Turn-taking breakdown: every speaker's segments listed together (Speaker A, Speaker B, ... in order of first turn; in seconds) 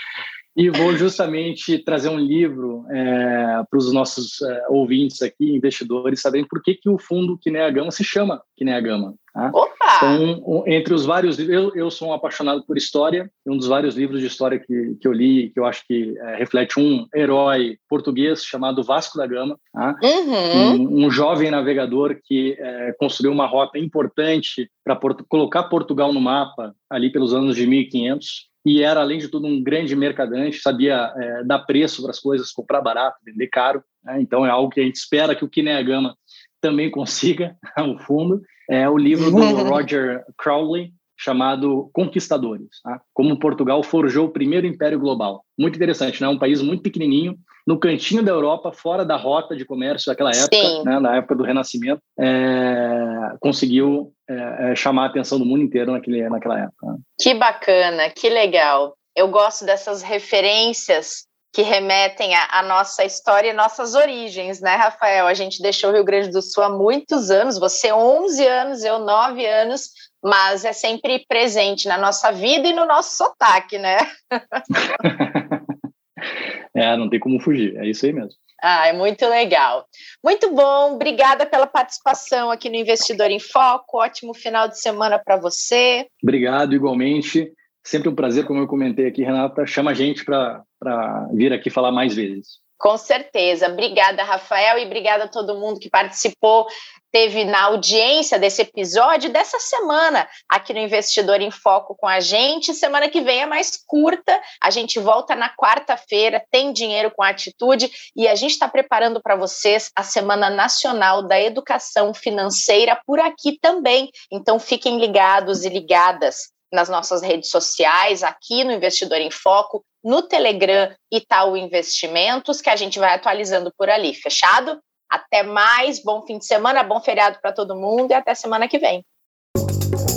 Speaker A: 0.6-20.0, 20.5-57.0, 75.0-75.6, 76.7-78.3, 86.2-92.6
Speaker B: 9.5-10.2, 20.0-20.8, 39.1-39.8, 50.3-50.9, 57.2-74.6, 78.6-86.1, 92.8-129.0